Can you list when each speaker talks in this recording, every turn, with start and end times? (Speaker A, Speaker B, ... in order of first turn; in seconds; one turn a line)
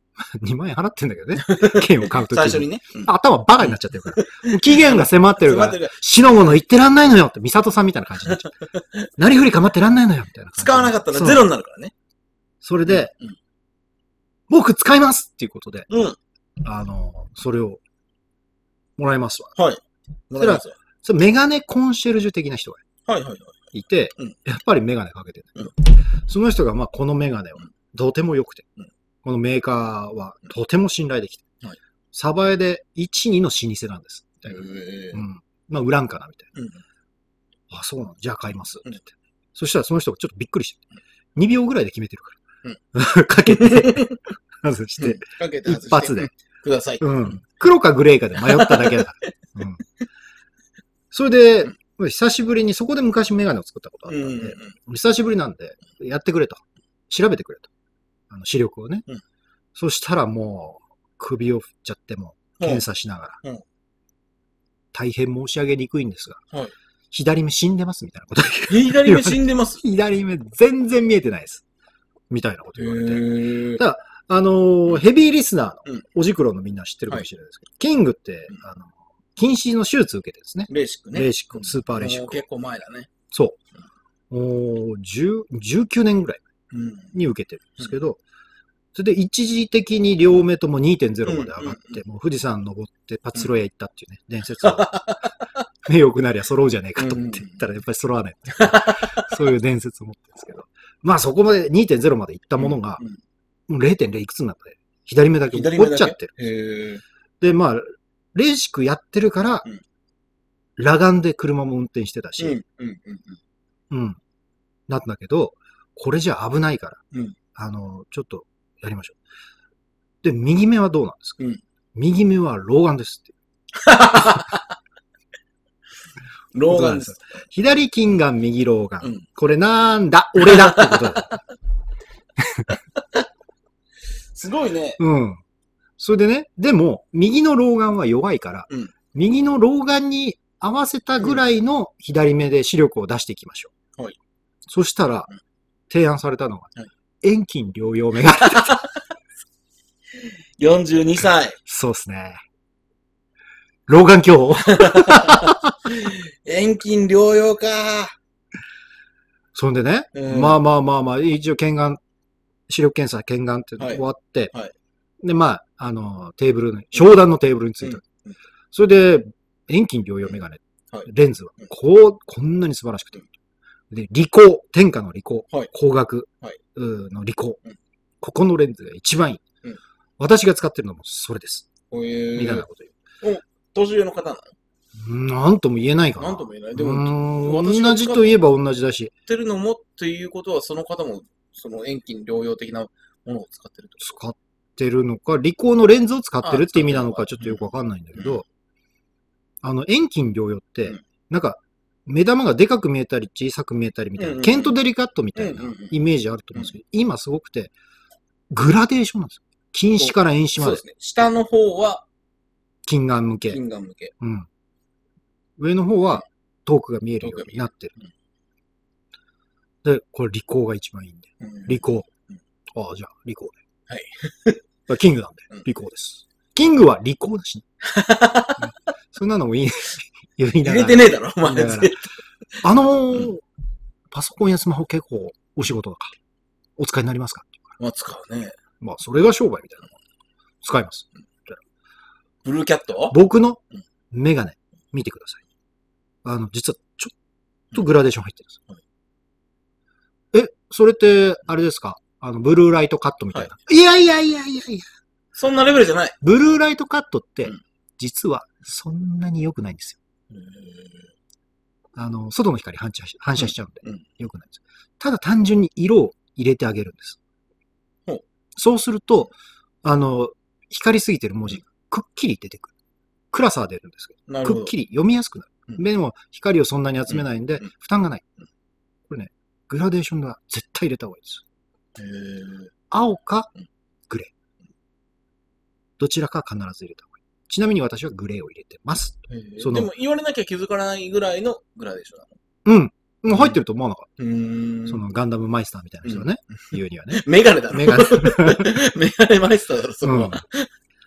Speaker A: 0.2-8.5
Speaker B: 1.4-6.0
Speaker B: 8.3-9.1
Speaker A: 9.2-11.5
Speaker B: 10.6-11.9
Speaker A: 12.6-13.1
Speaker B: 12.9-13.4
Speaker A: 14.5-15.9
Speaker B: 15.9-16.2
Speaker A: 16.6-17.8
Speaker A: 19.0-19.6
Speaker B: 19.6-20.8
Speaker A: 20.4-22.8
Speaker B: 23.1-23.6
Speaker A: 23.7-28.7
Speaker A: 29.2-31.4
Speaker A: 32.1-36.5
Speaker B: 34.5-35.2
Speaker B: 36.5-36.8
Speaker A: 37.7-40.8
Speaker A: 41.4-42.4
Speaker A: 42.9-46.3
Speaker B: 43.5-44.2
Speaker B: 45.0-47.4
Speaker A: 47.0-49.8
Speaker B: 48.4-49.3
Speaker A: 51.1-57.7
Speaker B: 54.1-54.7
Speaker A: 58.3-59.1
Speaker A: 59.7-63.4
Speaker A: 64.9-66.4
Speaker A: 67.1-71.6
Speaker B: 68.7-69.8
Speaker A: 72.3-82.4
Speaker B: 72.8-73.8
Speaker B: 80.7-83.1
Speaker A: 83.3-83.6
Speaker A: 84.3-86.4
Speaker B: 86.7-87.1
Speaker A: 87.1-88.2
Speaker A: 88.9-95.3
Speaker B: 91.3-92.0
Speaker B: 94.6-95.4
Speaker A: 95.8-103.0
Speaker B: 97.0-97.6
Speaker B: 98.6-99.2
Speaker B: 102.6-103.2
Speaker A: 103.7-106.3
Speaker B: 105.5-107.0
Speaker A: 107.4-109.7
Speaker A: 110.8-112.6
Speaker B: 112.4-113.4
Speaker A: 113.9-114.2
Speaker A: 114.9-117.0
Speaker B: 117.1-117.4
Speaker A: 117.5-119.2
Speaker A: 120.2-121.4
Speaker A: 121.9-123.3
Speaker B: 123.7-124.7
Speaker B: 126.5-127.2
Speaker A: 126.7-131.4
Speaker B: 130.4-131.2
Speaker B: 132.9-133.2
Speaker B: 134.3-135.0
Speaker A: 135.0-135.4
Speaker A: 136.0-143.7
Speaker A: 144.7-145.3
Speaker A: 145.9-146.7
Speaker A: 147.2-148.8
Speaker B: 148.4-148.9
Speaker B: 150.2-151.6
Speaker A: 151.7-152.4
Speaker A: 153.9-155.7
Speaker B: 154.7-158.2
Speaker A: 159.6-162.0
Speaker B: 160.1-160.6
Speaker A: 162.7-164.5
Speaker B: 163.8-164.7
Speaker A: 165.2-168.0
Speaker B: 167.8-168.4
Speaker A: 168.7-173.3
Speaker A: 173.9-177.6
Speaker A: 178.2-179.4
Speaker A: 180.2-181.7
Speaker B: 181.9-182.7
Speaker A: 182.3-182.9
Speaker B: 183.2-184.6
Speaker A: 185.0-189.1
Speaker B: 186.2-188.4
Speaker B: 189.3-194.0
Speaker A: 194.0-198.4
Speaker B: 196.4-198.4
Speaker A: 199.6-207.7
Speaker B: 204.2-204.8
Speaker B: 205.4-206.0
Speaker A: 208.5-210.8
Speaker B: 210.0-212.1
Speaker A: 212.9-213.6
Speaker B: 213.5-214.1
Speaker A: 214.2-214.5
Speaker A: 215.6-217.9
Speaker B: 217.2-218.1
Speaker A: 219.8-222.1
Speaker B: 221.4-222.4
Speaker A: 222.7-223.6
Speaker B: 223.9-224.6
Speaker A: 224.9-227.6
Speaker B: 227.8-228.7
Speaker A: 228.6-231.9
Speaker B: 230.6-232.1
Speaker A: 232.6-233.4
Speaker A: 234.1-236.1
Speaker A: 236.8-237.6
Speaker B: 237.8-238.6
Speaker A: 238.8-239.9
Speaker A: 240.6-241.6
Speaker B: 242.4-243.2
Speaker A: 243.1-243.6
Speaker A: 244.1-245.4
Speaker A: 246.2-247.1
Speaker A: 247.7-248.6
Speaker A: 250.3-254.9
Speaker B: 255.3-256.2
Speaker A: 256.2-260.0
Speaker B: 260.3-261.1
Speaker A: 261.9-267.2
Speaker B: 263.4-264.0
Speaker A: 268.6-269.3
Speaker A: 269.8-272.7
Speaker A: 273.3-278.2
Speaker B: 274.3-274.7
Speaker B: 277.1-277.6
Speaker A: 279.1-281.4
Speaker B: 281.9-282.7
Speaker A: 282.9-283.5
Speaker A: 286.0-289.9
Speaker B: 289.3-292.4
Speaker A: 292.6-294.1
Speaker B: 293.3-293.6
Speaker B: 294.2-295.0
Speaker A: 294.9-298.7
Speaker B: 297.1-300.7
Speaker A: 300.0-300.4